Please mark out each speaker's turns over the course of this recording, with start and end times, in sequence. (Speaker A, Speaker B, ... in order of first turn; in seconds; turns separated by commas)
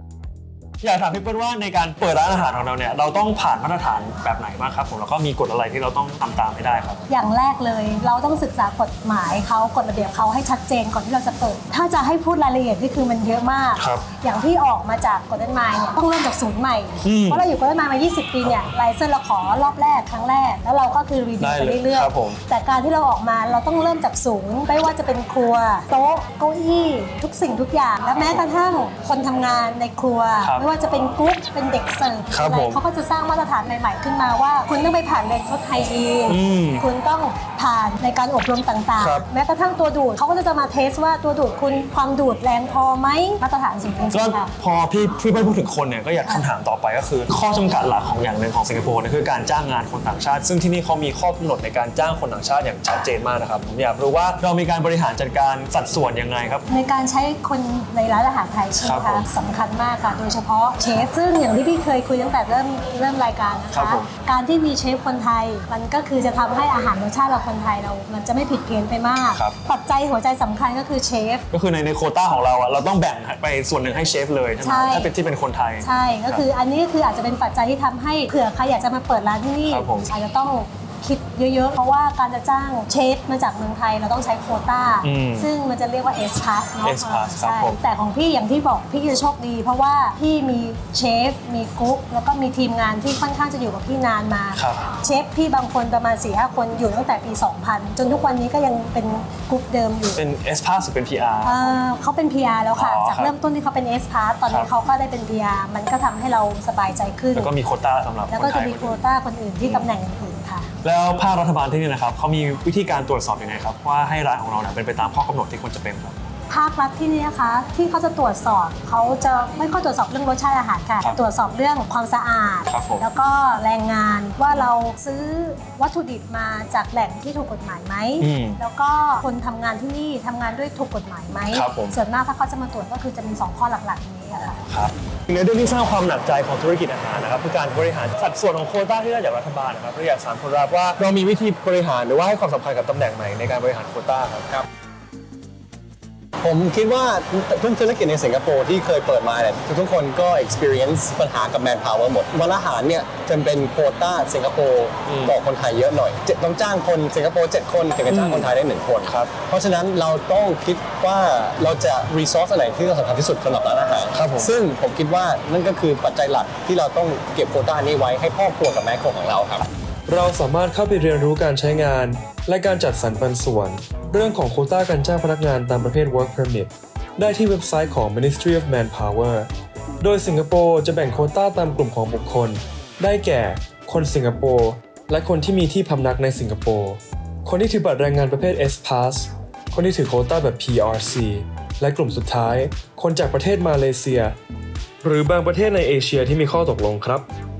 Speaker A: 0.8-7.0, Speaker B: 7.1-44.5, Speaker A: 13.8-14.1, Speaker A: 17.0-17.4, Speaker A: 21.4-22.4, Speaker A: 30.4-30.6, Speaker A: 32.3-32.8, Speaker A: 36.3-36.8, Speaker A: 39.0-39.2, Speaker A: 44.1-56.6, Speaker B: 56.7-71.4, Speaker A: 58.8-59.2, Speaker A: 63.7-64.1, Speaker A: 71.5-76.4, Speaker B: 74.6-75.1, Speaker B: 75.8-100.2, Speaker A: 79.7-80.1, Speaker A: 85.0-85.5, Speaker A: 86.8-87.8, Speaker A: 94.5-94.9, Speaker A: 100.1-101.7, Speaker B: 101.4-107.5, Speaker A: 102.8-103.3, Speaker A: 107.3-109.0, Speaker B: 108.3-110.7, Speaker A: 110.8-116.2, Speaker B: 116.5-134.6, Speaker A: 122.7-123.0, Speaker A: 128.2-128.6, Speaker A: 131.5-132.0, Speaker A: 134.7-144.5, Speaker C: 146.4-169.7, Speaker A: 155.1-155.3, Speaker A: 158.1-158.5, Speaker A: 159.0-159.3, Speaker A: 164.1-164.5, Speaker D: 170.1-194.3, Speaker D: 195.0-197.3